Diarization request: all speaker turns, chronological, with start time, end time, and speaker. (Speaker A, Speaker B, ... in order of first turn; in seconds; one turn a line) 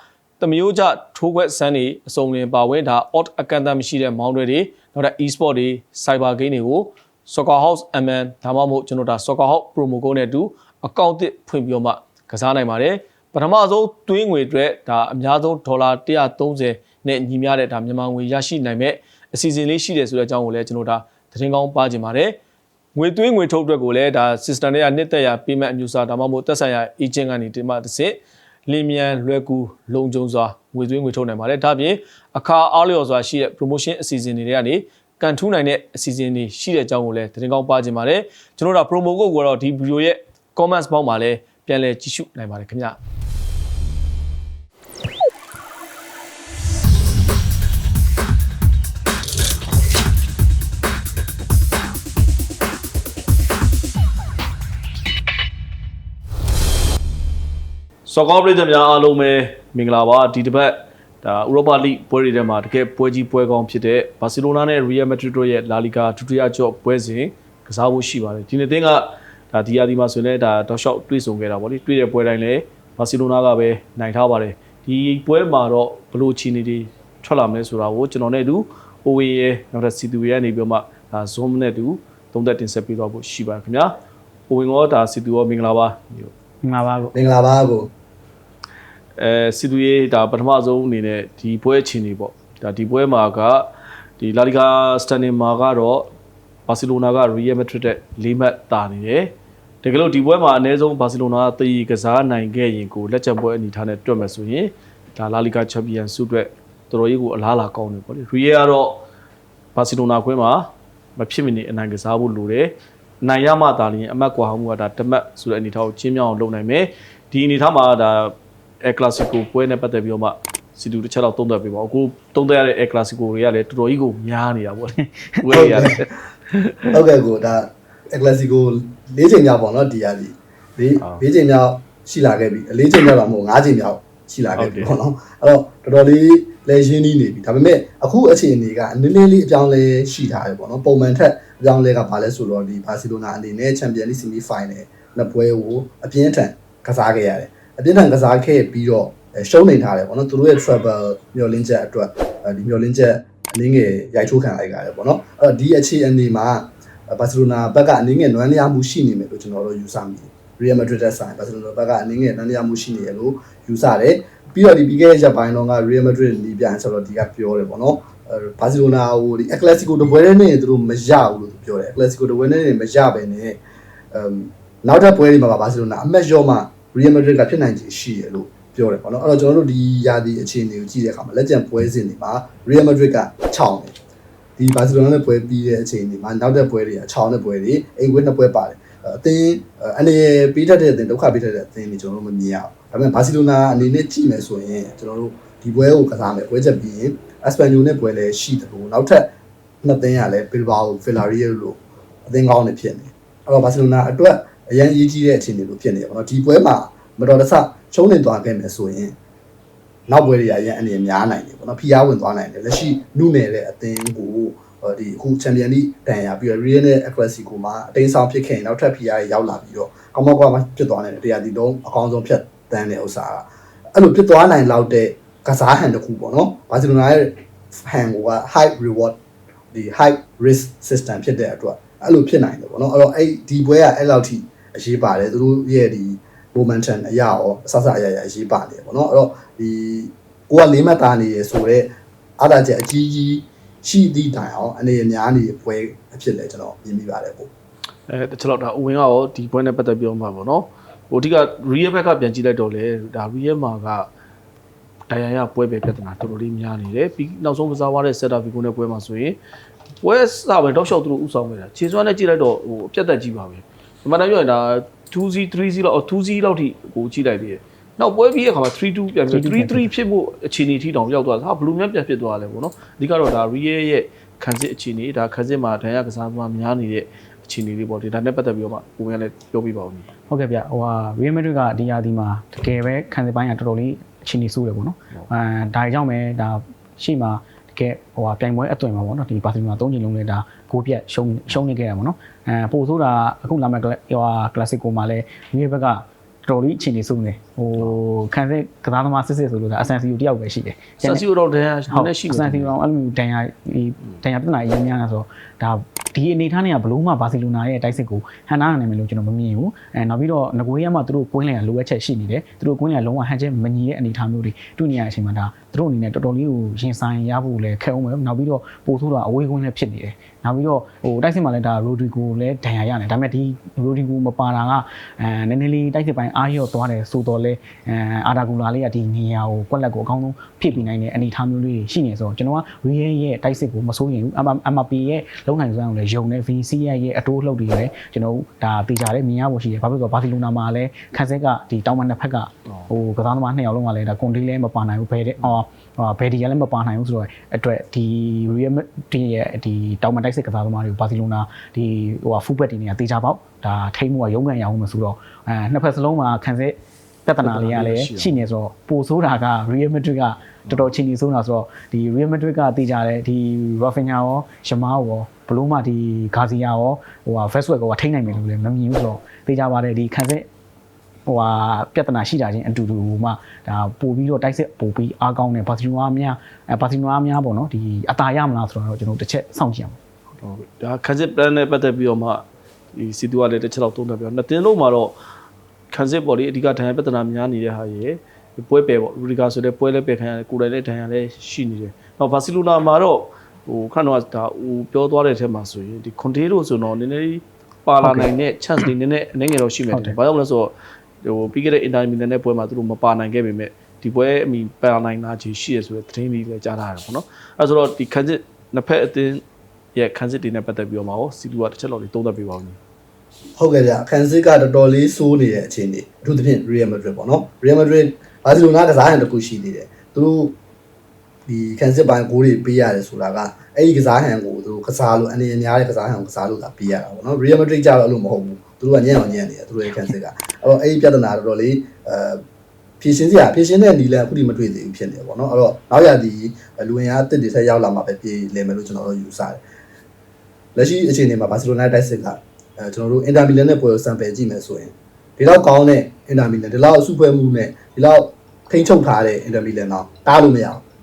Speaker A: 0.4-22.4
Speaker A: 22.9-43.0
Speaker A: 58.0-83.9
Speaker A: 84.5-86.3
Speaker B: 86.6-87.1
Speaker C: 87.1-87.9
Speaker A: 89.2-96.1
Speaker A: 96.7-109.0
Speaker A: 109.7-110.7
Speaker A: 111.2-127.0
Speaker C: 125.5-126.0
Speaker C: 126.9-173.6
Speaker A: 134.5-134.9
Speaker C: 174.1-183.9
Speaker C: 184.6-199.3
Speaker C: 199.8-209.1
Speaker C: 210.1-229.2
Speaker C: 229.7-247.5
Speaker A: 248.1-254.1
Speaker A: 255.1-259.4
Speaker A: 260.0-280.1
Speaker B: 269.3-269.9
Speaker B: 280.3-301.2
Speaker A: 301.0-302.7
Speaker B: 301.9-370.4
Speaker A: 357.4-358.4
Speaker A: 360.6-360.9
Speaker B: 371.3-380.0
Speaker A: 380.4-385.2
Speaker A: 385.9-409.4
Speaker B: 398.0-398.3
Speaker B: 399.9-400.2
Speaker A: 409.9-412.8
Speaker C: 413.6-420.6
Speaker C: 421.4-432.4
Speaker C: 433.0-439.6
Speaker C: 440.7-450.8